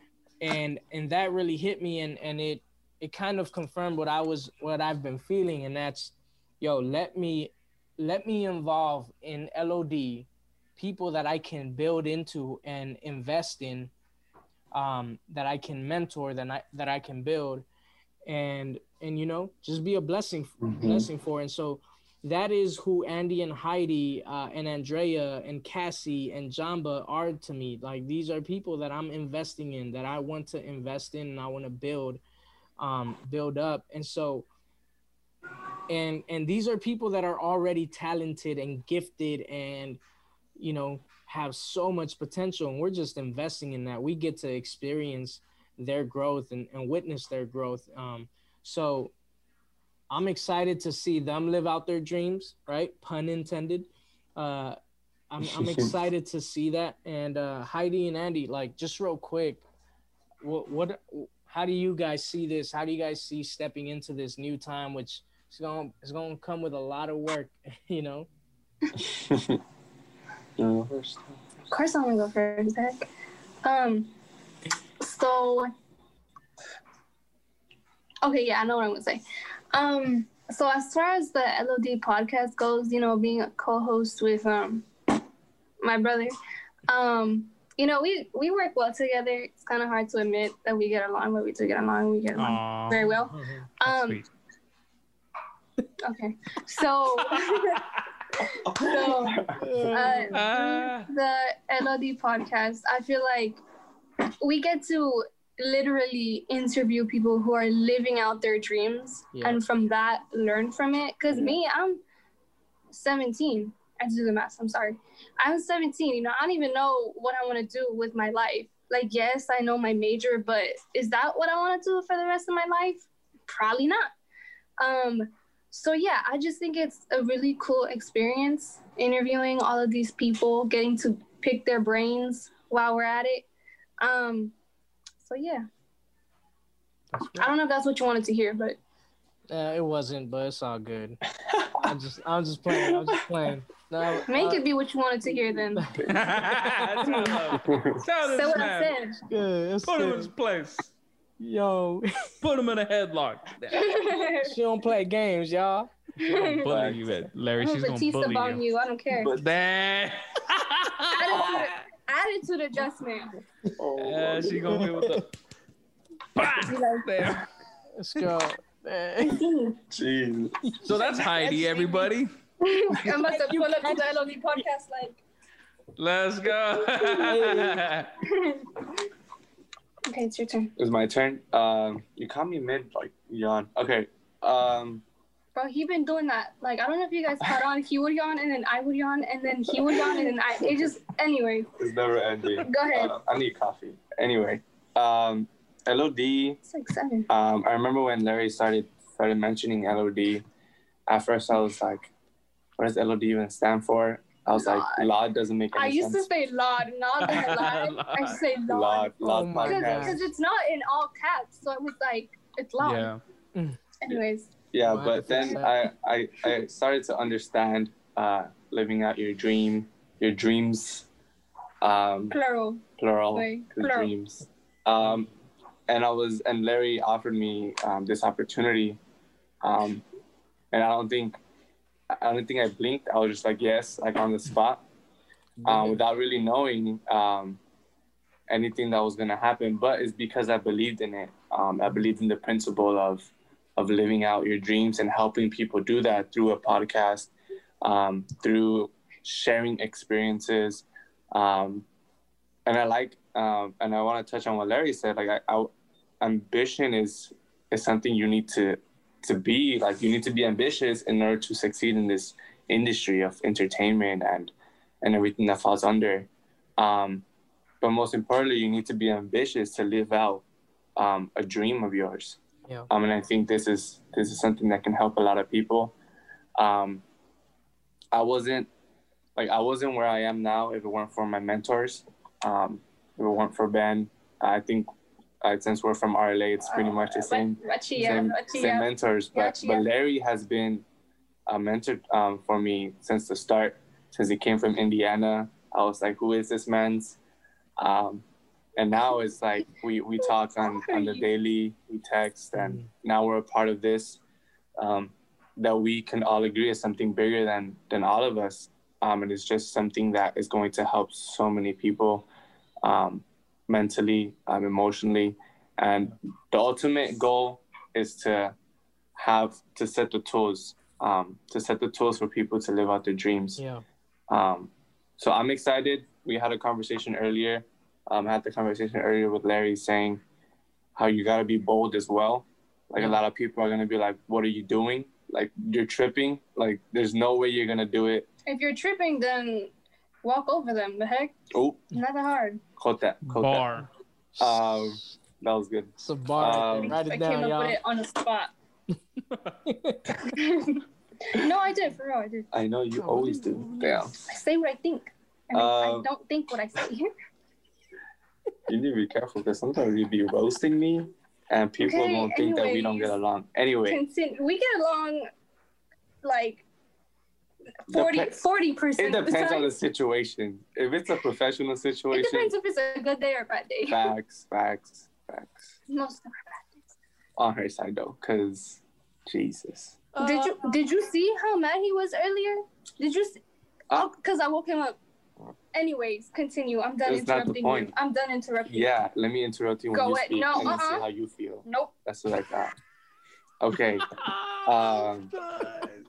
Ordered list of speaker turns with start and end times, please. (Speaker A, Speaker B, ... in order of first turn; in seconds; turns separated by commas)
Speaker A: 0.4-13.9, Speaker A: 14.7-17.6, Speaker A: 18.2-32.2, Speaker B: 20.6-21.1, Speaker A: 32.8-34.5, Speaker A: 35.9-40.0, Speaker A: 40.6-49.1, Speaker A: 50.1-54.8, Speaker A: 55.3-59.6, Speaker B: 55.4-55.9, Speaker A: 60.4-68.3, Speaker B: 69.0-69.6, Speaker B: 70.6-70.9, Speaker C: 71.7-73.1, Speaker C: 73.6-74.1, Speaker C: 75.0-75.7, Speaker C: 78.2-84.8, Speaker C: 85.8-86.3, Speaker C: 86.9-94.2, Speaker D: 92.4-93.0, Speaker A: 93.1-93.7, Speaker D: 93.8-94.3, Speaker C: 96.0-103.6, Speaker D: 97.3-98.0, Speaker B: 98.6-100.1, Speaker A: 99.5-100.5, Speaker D: 100.3-101.1, Speaker C: 104.4-112.0, Speaker A: 109.3-109.6, Speaker B: 111.3-111.6, Speaker C: 112.9-124.1, Speaker C: 124.8-133.5, Speaker C: 134.0-134.5, Speaker C: 135.2-135.7, Speaker A: 137.1-137.5, Speaker C: 137.3-138.8, Speaker A: 139.5-141.2, Speaker B: 141.4-141.9, Speaker A: 141.7-144.6, Speaker B: 142.7-143.2, Speaker C: 144.3-145.9, Speaker A: 145.8-147.6, Speaker B: 145.9-146.2, Speaker D: 146.1-149.0, Speaker B: 147.5-148.0, Speaker C: 148.2-149.2, Speaker A: 149.2-150.3, Speaker D: 149.8-150.9, Speaker A: 151.4-152.3, Speaker D: 152.4-154.1, Speaker C: 153.7-154.6, Speaker A: 154.4-156.6, Speaker C: 156.2-156.7, Speaker D: 156.6-158.6, Speaker B: 156.7-157.1, Speaker C: 157.6-159.3, Speaker B: 159.1-159.5, Speaker D: 159.3-161.8, Speaker C: 161.1-163.3, Speaker B: 163.8-164.9, Speaker D: 164.0-165.3, Speaker A: 164.7-165.2, Speaker D: 166.3-167.5, Speaker C: 166.6-167.2, Speaker A: 168.0-169.5, Speaker C: 169.3-169.8, Speaker B: 169.9-170.6, Speaker A: 170.6-172.0, Speaker D: 170.8-172.3, Speaker C: 171.2-172.0, Speaker C: 172.6-175.2, Speaker A: 173.0-174.6, Speaker D: 176.0-178.1, Speaker A: 177.1-177.8, Speaker C: 178.2-178.9, Speaker C: 180.1-180.7, Speaker B: 180.8-185.0, Speaker C: 185.5-191.7, Speaker B: 189.7-190.3, Speaker B: 191.8-196.6, Speaker C: 192.5-193.1, Speaker C: 196.6-197.3, Speaker B: 197.3-200.4, Speaker B: 201.1-202.1, Speaker B: 202.8-206.3, Speaker C: 204.6-205.1, Speaker C: 205.7-213.1, Speaker D: 207.2-208.4, Speaker B: 208.7-210.3, Speaker A: 209.2-210.2, Speaker D: 212.8-213.2, Speaker C: 214.0-214.5, Speaker B: 214.7-221.1, Speaker A: 214.8-215.8, Speaker B: 221.8-222.3, Speaker C: 222.3-224.1, Speaker B: 223.0-225.3, Speaker A: 225.0-225.3, Speaker B: 225.9-229.0, Speaker B: 229.6-230.0, Speaker B: 230.7-231.4, Speaker B: 232.1-234.9, Speaker A: 235.6-236.0, Speaker B: 235.6-237.6, Speaker B: 238.5-251.9, Speaker B: 252.7-267.2, Speaker B: 267.8-270.4, Speaker B: 270.9-272.4, Speaker B: 272.9-275.9, Speaker B: 276.6-277.0, Speaker B: 278.1-278.7, Speaker B: 279.4-284.9, Speaker B: 285.4-290.9, Speaker C: 286.6-289.8, Speaker B: 291.5-297.2, Speaker B: 297.8-304.2, Speaker C: 300.7-301.2, Speaker A: 302.6-302.9, Speaker B: 304.8-312.3, Speaker B: 312.8-318.5, Speaker B: 319.1-323.6, Speaker A: 323.6-323.8, Speaker B: 324.3-330.2, Speaker B: 330.9-338.3, Speaker C: 338.4-341.3, Speaker B: 341.5-341.9, Speaker C: 341.9-342.6, Speaker B: 342.8-343.8, Speaker D: 343.2-343.9, Speaker A: 344.4-345.0, Speaker B: 344.4-347.0, Speaker A: 346.0-347.8, Speaker C: 346.7-348.5, Speaker A: 349.6-350.4, Speaker C: 350.2-352.5, Speaker B: 352.5-354.2, Speaker A: 353.0-354.0, Speaker C: 354.2-357.1, Speaker B: 355.5-356.1, Speaker B: 358.7-364.0, Speaker C: 361.8-363.1, Speaker C: 363.9-365.3, Speaker C: 366.2-366.6, Speaker B: 367.9-368.4, Speaker C: 367.9-369.7, Speaker B: 369.0-372.5, Speaker C: 372.1-374.1, Speaker B: 373.9-375.8, Speaker C: 375.9-376.8, Speaker B: 377.4-380.1, Speaker A: 380.2-380.6, Speaker C: 380.2-383.4, Speaker C: 383.9-385.0, Speaker C: 385.7-388.9, Speaker B: 387.0-387.9, Speaker B: 388.7-392.7, Speaker C: 389.9-391.1, Speaker C: 391.6-391.9, Speaker B: 393.6-395.3, Speaker D: 394.1-396.0